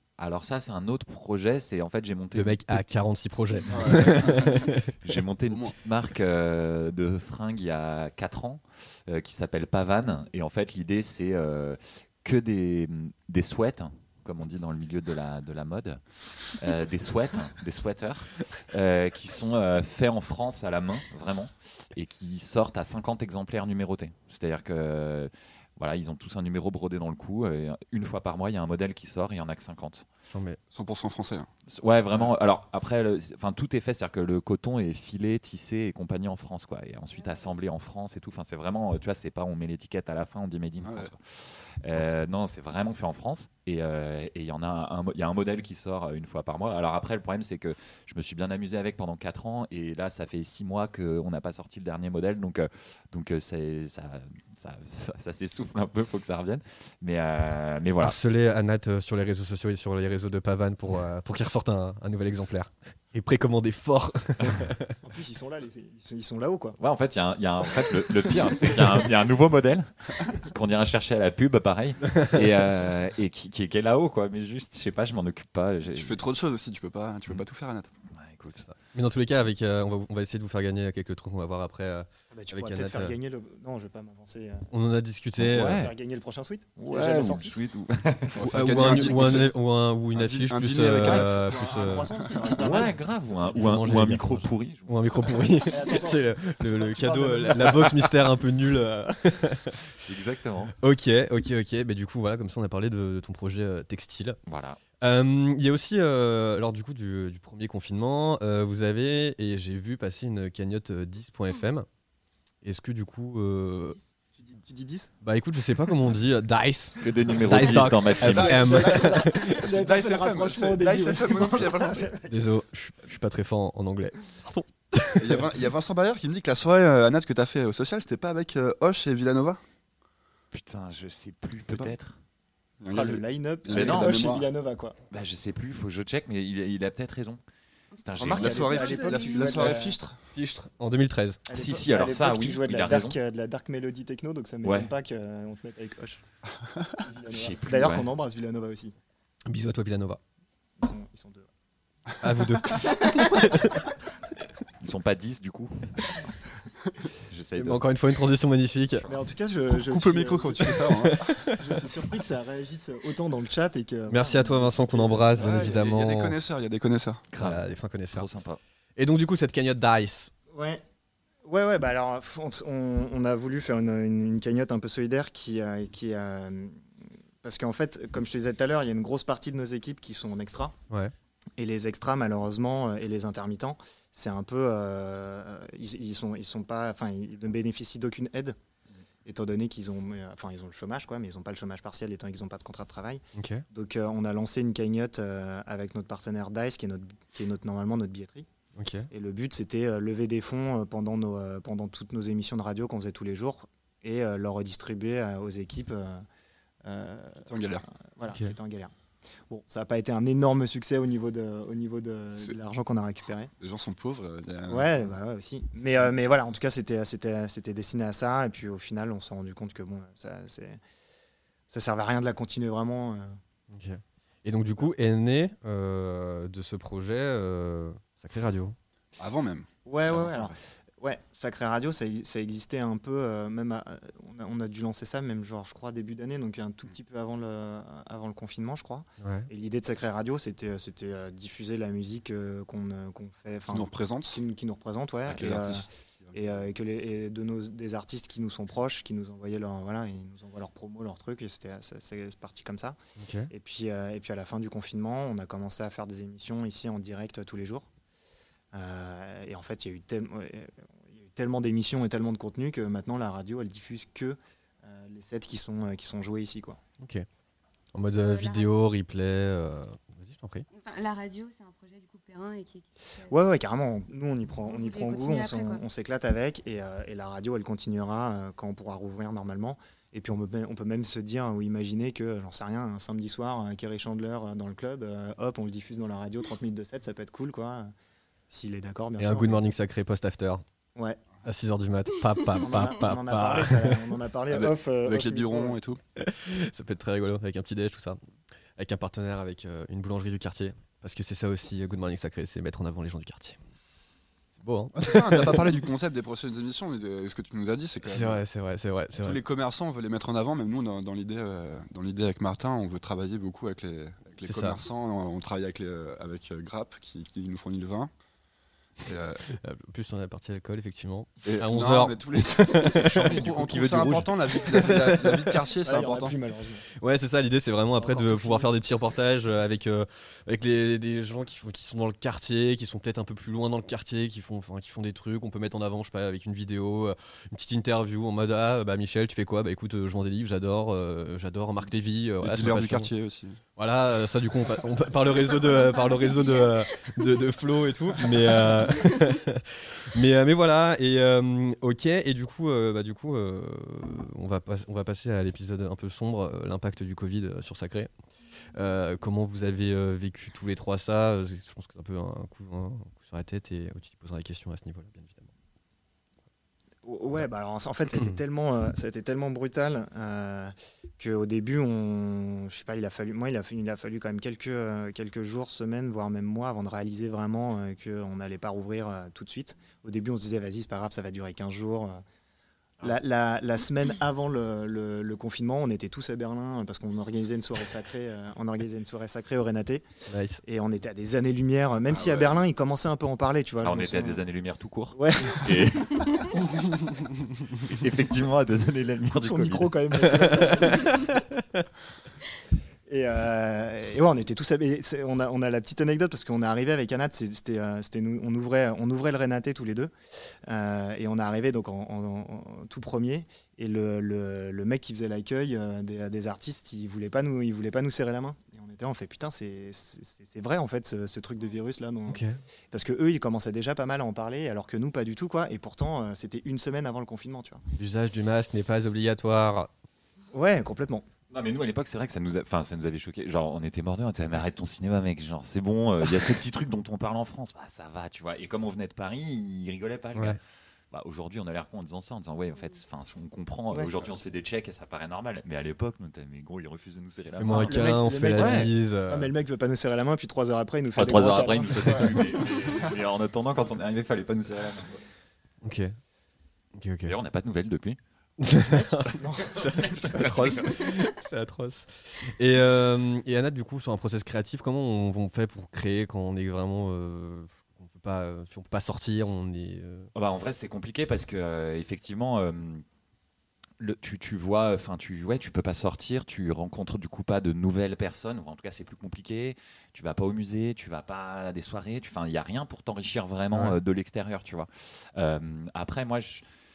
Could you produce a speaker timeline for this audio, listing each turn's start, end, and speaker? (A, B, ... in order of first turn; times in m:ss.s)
0:00.2-0:03.0 A
0:02.3-0:04.9 B
0:03.7-0:04.7 C
0:05.0-0:30.1 A
0:05.5-0:05.8 C
0:30.3-0:30.6 B
0:30.7-0:31.5 C
0:31.7-0:58.2 A
0:40.8-0:41.1 C
0:58.0-1:05.0 B
1:05.0-1:06.8 D
1:06.8-1:16.2 A
1:12.2-1:12.4 B
1:15.9-1:17.9 C
1:18.1-1:18.7 A
1:18.6-1:23.2 B
1:22.3-1:24.7 D
1:24.7-1:25.9 B
1:25.4-1:25.9 A
1:25.7-1:27.5 D
1:26.8-1:29.4 A
1:28.3-1:29.6 C
1:28.4-1:32.1 B
1:30.1-1:32.6 C
1:31.0-1:33.0 D
1:32.6-1:35.6 A
1:33.4-1:39.8 B
1:35.7-1:38.0 D
1:40.0-1:40.8 A
1:40.8-1:44.4 B
1:44.5-1:44.8 A
1:45.0-1:51.9 B
1:52.6-1:54.0 B
1:54.4-1:55.1 D
1:55.2-1:59.6 B
1:57.0-1:58.7 A
1:57.4-2:02.1 C
1:58.5-2:02.4 D
2:02.3-2:05.4 B
2:05.2-2:09.6 C
2:10.5-2:12.2 A
2:11.6-2:11.9 C
2:12.8-2:14.5 C
2:12.9-2:15.0 D
2:13.7-2:14.3 A
2:15.1-2:17.4 A
2:17.9-2:19.8 E
2:18.0-2:18.7 A
2:18.2-2:20.0 D
2:18.2-2:20.2 C
2:20.3-2:21.4 B
2:21.5-2:26.2 D
2:21.5-2:23.2 A
2:24.6-2:24.9 A
2:27.0-2:28.9 D
2:27.3-2:28.1 A
2:29.5-2:30.2 B
2:30.8-2:31.5 D
2:32.2-2:33.9 B
2:34.8-2:36.3 A
2:37.3-2:37.8 A
2:37.6-2:39.1 B
2:39.1-2:41.0 D
2:39.7-2:41.5 C
2:41.0-2:41.6 B
2:41.6-2:45.8 D
2:44.1-2:46.4 B
2:45.4-2:47.2 C
2:47.3-2:48.6 A
2:47.4-2:48.3 B
2:49.0-2:50.3 B
2:50.5-2:50.8 D
2:51.4-2:56.8 D
2:57.4-3:00.8 D
3:01.6-3:08.6 D
3:09.2-3:18.5 D
3:13.4-3:13.6 B
3:18.8-3:19.1 B
3:19.1-3:26.3 D
3:26.8-3:27.5 D
3:27.4-3:27.9 C
3:28.1-3:28.9 D
3:28.3-3:28.6 B
3:29.5-3:33.5 D
3:33.6-3:35.0 C
3:34.7-3:40.8 D
3:41.7-3:43.4 D
3:43.7-3:48.8 B
3:49.2-3:50.5 C
3:49.9-4:13.0 D
3:59.2-3:59.5 B
4:03.7-4:04.4 C
4:05.3-4:06.7 C
4:13.2-4:13.5 B
4:13.5-4:17.9 D
4:18.7-4:26.8 D
4:27.0-4:27.3 B
4:27.9-4:30.6 B
4:28.2-4:28.7 E
4:30.7-4:33.4 E
4:33.3-4:47.9 D
4:34.7-4:35.8 E
4:48.5-4:49.6 D
4:49.2-4:50.6 B
4:51.0-4:51.2 D
4:51.4-4:54.0 B
4:52.6-4:55.8 D
4:54.5-4:56.0 C
4:56.2-4:58.2 B
4:58.8-5:03.6 B
5:04.6-5:05.7 B
5:05.0-5:08.4 C
5:08.0-5:09.4 B
5:09.2-5:18.1 C
5:14.4-5:14.8 B
5:19.0-5:19.5 C
5:19.5-5:25.6 B
5:21.4-5:26.4 C
5:25.8-5:26.8 D
5:27.0-5:43.1 B
5:28.0-5:28.7 D
5:42.4-5:43.6 C
5:43.8-5:58.1 B
5:45.6-5:47.2 E
5:58.7-6:05.5 B
6:07.0-6:22.2 D
6:23.0-6:30.0 D
6:30.3-6:30.6 B
6:30.6-6:34.4 D
6:32.1-6:32.6 C
6:33.8-6:36.6 A
6:35.1-6:36.0 D
6:37.8-6:39.9 A
6:39.3-6:41.3 D
6:40.3-6:41.8 B
6:43.1-6:50.1 D
6:50.6-7:07.8 D
7:02.3-7:02.6 B
7:08.0-7:09.9 B
7:10.5-7:11.3 D
7:11.5-7:20.6 A
7:21.1-7:28.9 A
7:27.6-7:29.5 B
7:27.7-7:32.8 D
7:31.1-7:35.2 A
7:35.8-7:36.2 B
7:37.0-7:37.4 B
7:37.2-7:38.2 A
7:38.6-7:50.3 B
7:38.9-7:40.8 D
7:40.0-7:41.0 A
7:50.4-7:53.0 A
7:54.0-8:06.6 A
8:03.7-8:04.0 B